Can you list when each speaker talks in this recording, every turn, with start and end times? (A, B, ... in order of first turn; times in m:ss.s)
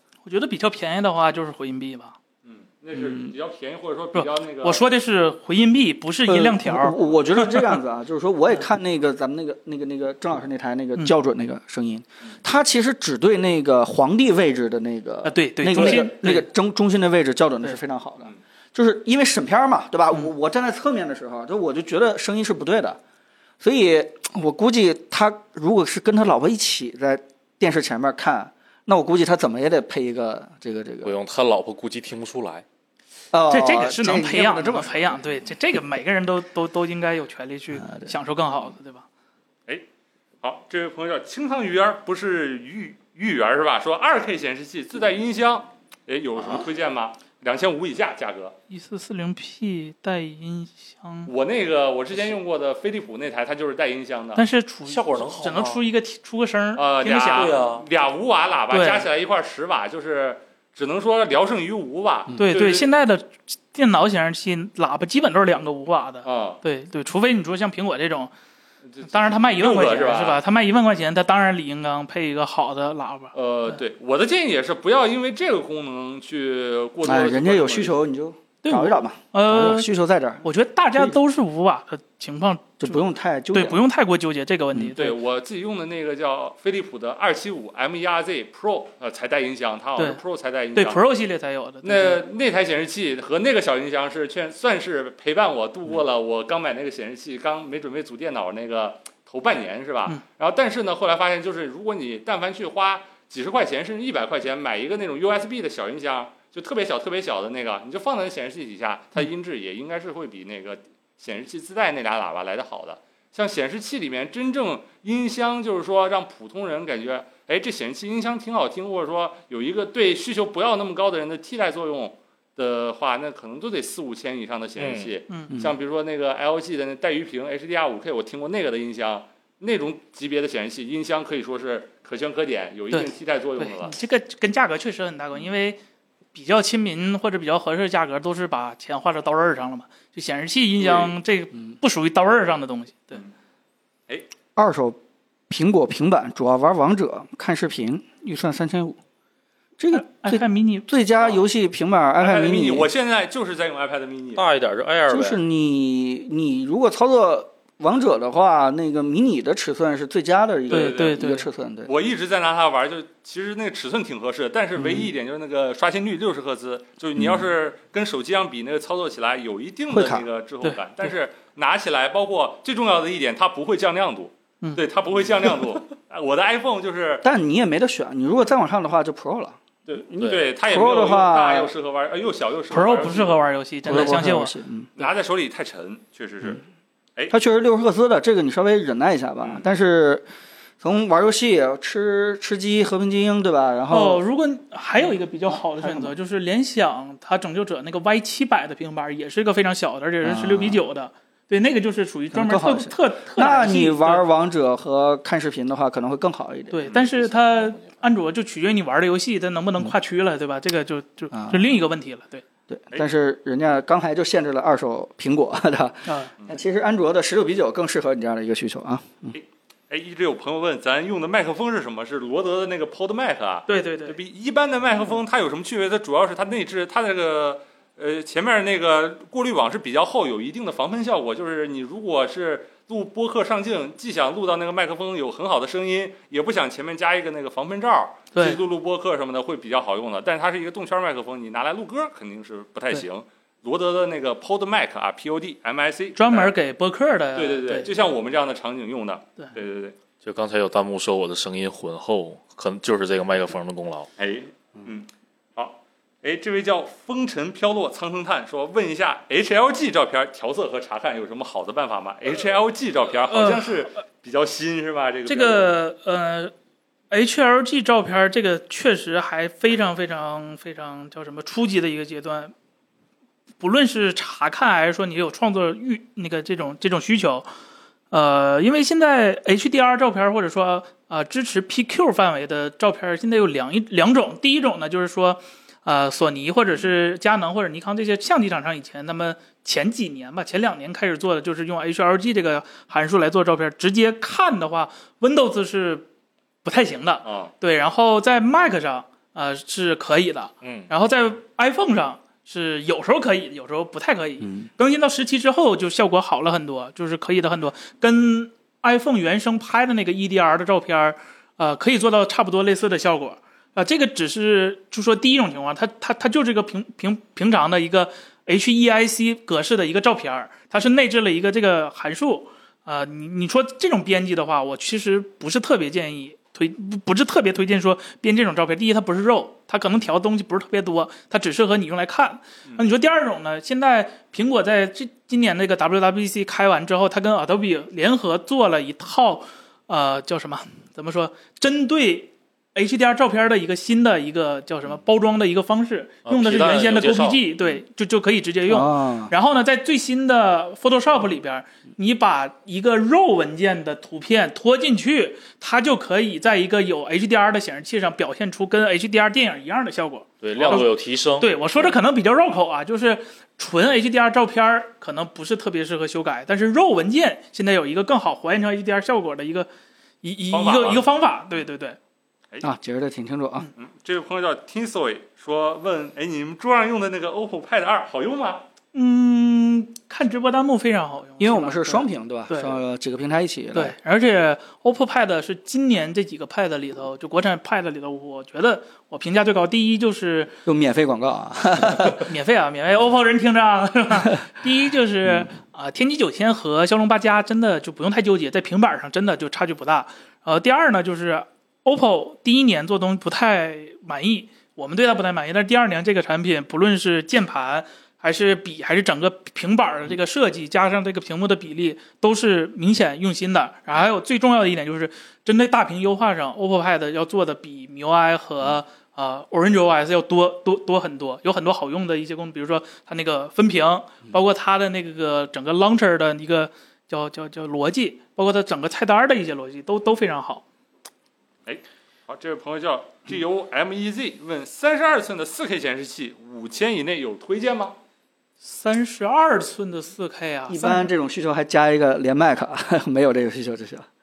0:00.2-0:02.2 A
0:02.4-0:04.8 B
0:02.9-0:03.3 C
0:04.1-0:07.8 A
0:06.2-0:23.0 C
0:15.2-0:16.5 A
0:23.6-0:31.1 C
0:31.0-0:32.6 D
0:33.3-0:35.2 C
0:33.5-0:39.0 A
0:37.8-0:38.1 C
0:40.4-0:48.6 B
0:48.7-0:51.3 A
0:51.3-0:54.4 B
0:54.4-0:57.7 A
0:54.8-0:55.8 D
0:56.8-1:02.9 B
0:57.3-0:57.8 D
0:58.7-0:59.0 A
1:02.4-1:08.3 A
1:06.2-1:06.6 B
1:08.9-1:10.4 B
1:09.0-1:13.3 A
1:13.3-1:18.0 B
1:17.0-1:20.4 C
1:18.6-1:19.9 A
1:20.4-1:23.0 A
1:22.8-1:23.8 C
1:23.5-1:25.2 A
1:25.0-1:31.0 B
1:30.7-1:32.2 A
1:31.8-2:13.9 B
2:04.8-2:05.1 D
2:12.9-2:15.8 A
2:16.3-2:23.2 A
2:20.8-2:21.1 B
2:24.6-2:25.0 C
2:25.5-2:29.0 C
2:29.8-2:32.9 C
2:29.9-2:30.9 A
2:32.2-2:34.4 B
2:34.3-2:35.4 D
2:35.1-2:41.9 C
2:40.7-2:41.2 B
2:40.7-2:41.5 A
2:41.8-2:57.2 B
2:44.8-2:45.1 C
2:47.2-2:47.5 C
2:49.9-2:50.2 C
2:57.2-2:59.6 C
2:59.9-3:03.4 B
3:00.1-3:01.7 C
3:02.7-3:04.5 A
3:03.8-3:04.9 C
3:05.0-3:06.6 B
3:07.3-3:10.2 C
3:10.8-3:14.2 C
3:13.9-3:24.2 A
3:15.5-3:16.1 C
3:20.2-3:20.8 C
3:22.3-3:26.9 C
3:26.7-3:32.4 A
3:26.9-3:28.0 D
3:31.3-3:31.7 C
3:32.7-3:39.3 C
3:36.0-3:36.3 A
3:39.3-4:06.5 B
3:43.7-3:44.2 A
3:58.3-3:58.6 A
4:06.2-4:07.9 A
4:07.3-4:09.9 B
4:10.2-4:14.1 D
4:14.2-4:25.8 B
4:23.3-4:23.9 A
4:25.3-4:26.5 A
4:27.1-4:32.5 A
4:33.6-4:37.5 A
4:38.1-4:56.1 A
4:56.6-6:09.7 A
4:57.2-4:57.5 B
5:00.6-5:00.9 D
5:46.2-5:47.4 D
5:48.7-5:49.3 C
6:00.4-6:01.9 D
6:00.5-6:00.9 B
6:10.2-6:12.0 A
6:10.5-6:11.0 B
6:12.6-6:13.7 C
6:13.8-6:18.6 B
6:18.9-6:22.8 A
6:21.4-6:23.9 C
6:23.7-6:30.6 A
6:30.6-6:32.3 C
6:32.2-7:10.6 A
7:11.6-7:18.0 B
7:18.6-7:21.1 A
7:20.7-7:24.0 C